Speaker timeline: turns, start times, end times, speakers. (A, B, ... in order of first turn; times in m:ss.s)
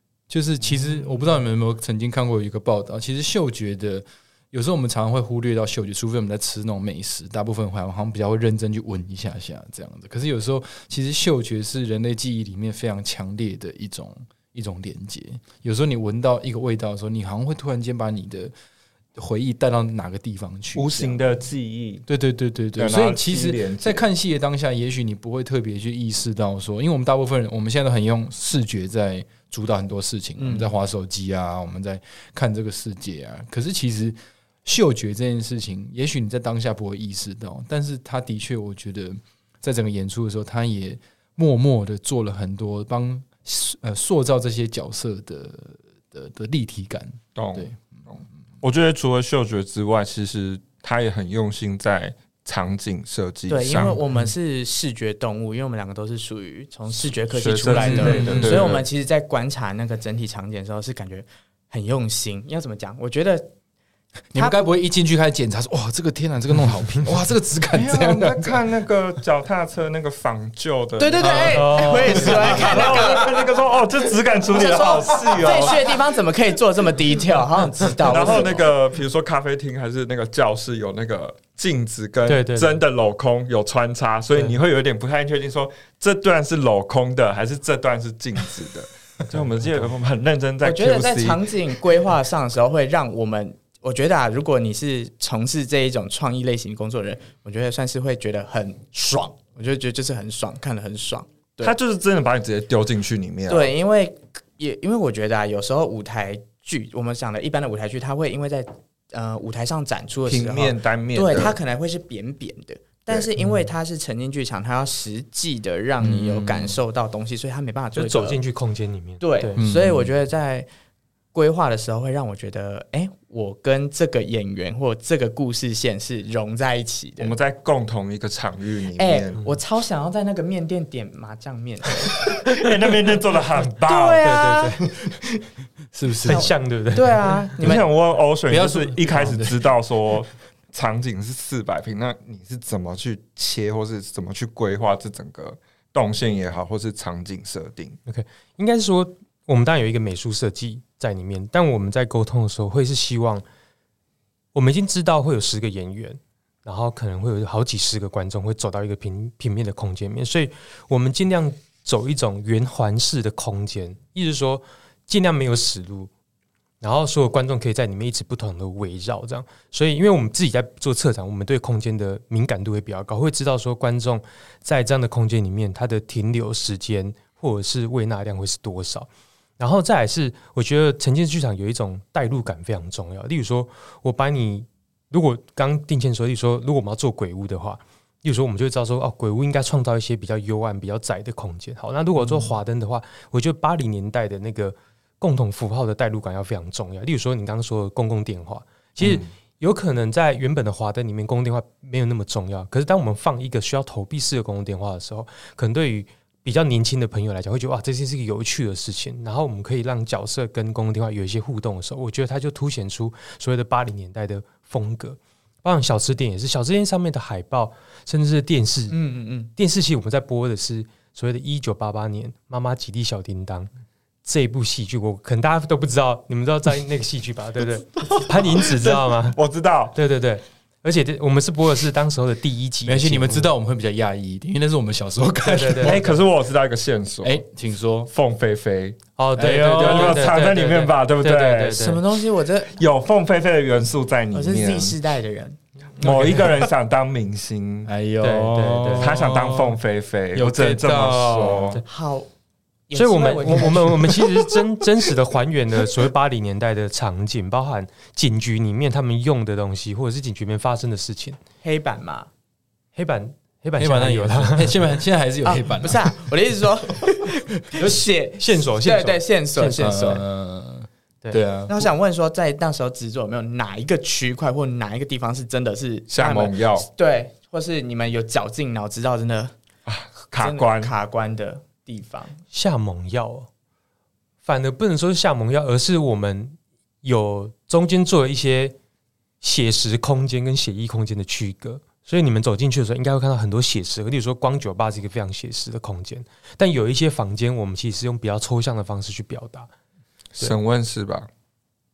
0:00.3-0:18.5 A
0:19.2-0:21.4 A
0:20.7-0:22.0 B
0:22.1-0:48.0 A
0:22.8-0:24.0 B
0:30.4-0:30.7 C
0:47.3-0:54.0 B
0:53.5-1:03.5 C
0:57.3-0:58.8 B
0:57.7-0:58.8 A
1:04.3-1:08.6 A
1:04.4-1:04.6 C
1:07.7-1:16.0 B
1:11.0-1:13.4 C
1:11.2-1:13.0 A
1:11.4-1:12.5 D
1:14.5-1:18.7 C
1:18.0-1:31.5 B
1:22.3-1:22.8 D
1:30.6-1:41.7 C
1:41.6-1:43.7 B
1:43.5-1:58.4 C
1:50.3-1:51.6 B
1:56.0-1:56.8 A
1:57.9-1:59.6 D
1:59.2-2:00.7 C
1:59.6-2:00.1 A
2:01.3-2:07.4 C
2:07.2-2:09.4 B
2:09.0-2:12.3 C
2:12.3-2:14.3 B
2:13.8-2:14.8 C
2:14.2-2:14.8 D
2:15.9-2:16.5 A
2:16.2-2:17.3 D
2:16.3-2:17.9 C
2:17.6-2:28.0 B
2:18.5-2:19.7 A
2:28.0-2:33.4 D
2:34.5-2:46.1 D
2:46.8-2:59.1 D
2:59.6-3:39.0 D
3:19.0-3:19.3 B
3:38.9-3:39.5 C
3:39.6-3:43.7 D
3:44.2-3:49.4 D
3:48.0-3:50.0 B
3:49.9-3:53.5 D
3:52.8-3:56.1 A
3:55.4-3:56.2 D
3:55.8-3:57.4 B
3:57.2-3:58.1 A
3:58.1-4:01.8 B
3:59.2-4:02.0 D
3:59.4-4:00.3 A
4:01.7-4:02.7 C
4:02.7-4:05.0 B
4:04.3-4:05.6 C
4:06.0-4:06.4 D
4:06.0-4:07.9 B
4:07.8-4:09.8 A
4:08.2-4:09.1 D
4:09.0-4:11.8 B
4:10.3-4:11.8 A
4:11.8-4:12.3 C
4:12.9-4:14.3 C
4:12.9-4:21.4 D
4:13.5-4:13.9 A
4:21.6-4:22.3 C
4:22.9-4:24.8 D
4:23.8-4:26.2 A
4:25.4-4:30.2 C
4:27.7-4:28.0 A
4:28.4-4:30.2 D
4:29.8-4:31.9 A
4:31.7-4:39.5 C
4:36.1-4:36.9 B
4:39.9-4:40.9 B
4:40.3-4:42.4 C
4:42.5-4:43.5 D
4:44.4-4:48.8 D
4:49.4-4:59.7 D
5:00.4-5:01.3 B